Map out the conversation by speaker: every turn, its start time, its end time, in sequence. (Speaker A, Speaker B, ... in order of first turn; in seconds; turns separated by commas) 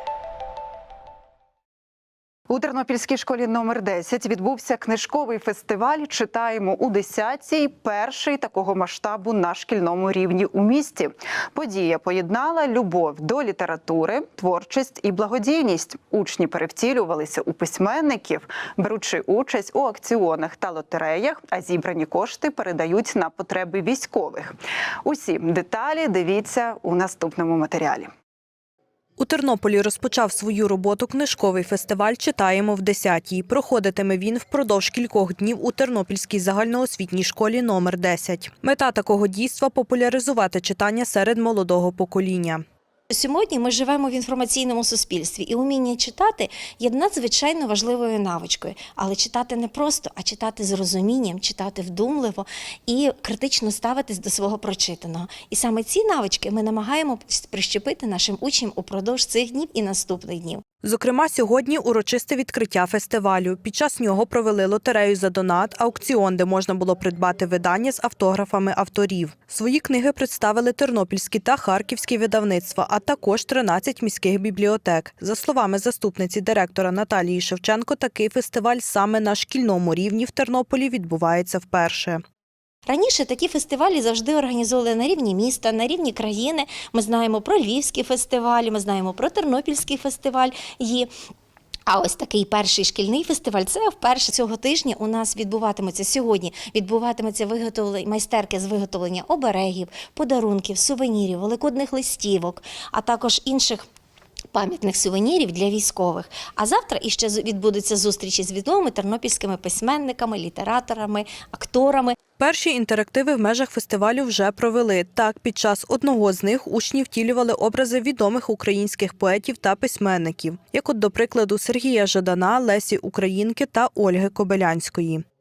Speaker A: 2.5-24.5, Speaker A: 25.1-28.1, Speaker B: 29.2-42.6, Speaker C: 43.1-60.6, Speaker B: 60.8-82.2, Speaker C: 82.9-91.1, Speaker C: 91.9-103.8, Speaker C: 104.5-112.2, Speaker B: 112.4-125.2